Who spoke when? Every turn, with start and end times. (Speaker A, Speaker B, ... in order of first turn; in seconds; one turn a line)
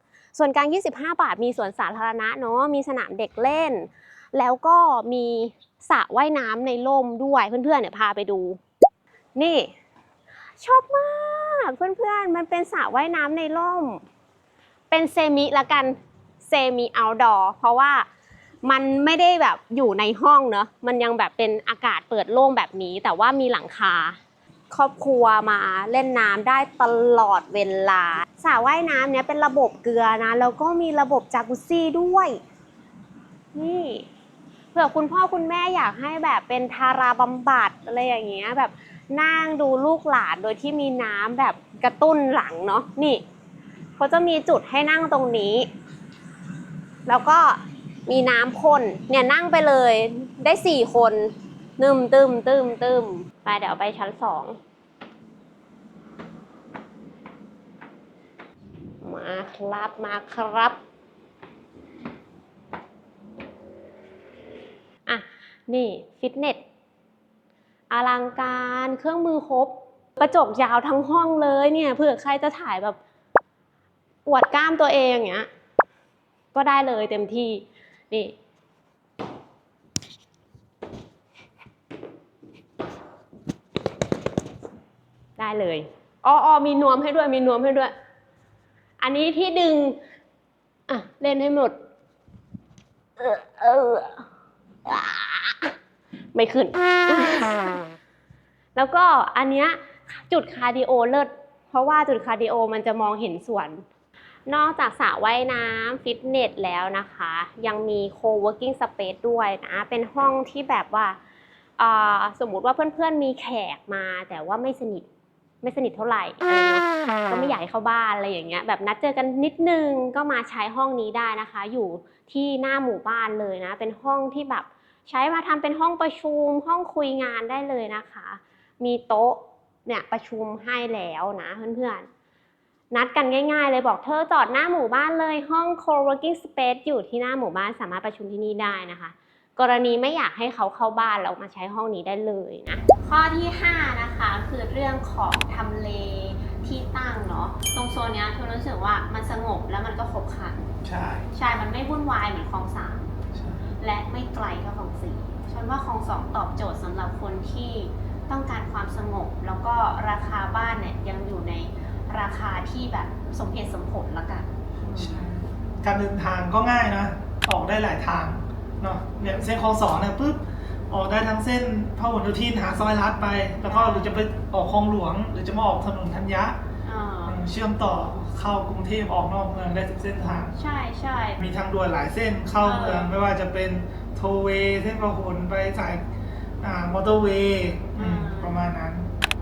Speaker A: 0.3-8.6
Speaker A: 9.3-9.7
Speaker A: 10.6-14.0
Speaker A: 14.9-18.1
Speaker A: 18.6-24.2
Speaker A: 24.7-32.4
Speaker A: 33.5-34.1
Speaker A: 34.7-43.2
Speaker A: 44.0-45.7
Speaker A: 47.0-54.6
Speaker A: 59.0-60.8
Speaker A: 65.0-66.6
Speaker A: 67.9-73.0
Speaker A: 74.2-75.5
Speaker A: 76.5-78.3
Speaker A: 85.4-87.9
Speaker A: 89.0-90.0
Speaker A: 90.9-91.8
Speaker A: 93.2-94.2
Speaker A: 94.8-95.7
Speaker A: 96.3-97.8
Speaker A: 98.7-103.8
Speaker A: 104.5-111.2
Speaker A: 111.8-115.1
Speaker A: 115.6-132.1
Speaker A: 132.9-150.7
Speaker B: 150.8-151.3
Speaker A: 151.3-153.1
Speaker B: 153.3-153.7
Speaker A: 153.8-165.2
Speaker B: 164.9-176.6
Speaker A: 173.7-174.2
Speaker A: 176.8-177.4
Speaker B: 177.2-180.5
Speaker A: 180.5-181.4
Speaker B: 181.4-186.0
Speaker A: 182.6-183.1
Speaker B: 186.6-189.1
Speaker A: 187.9-188.6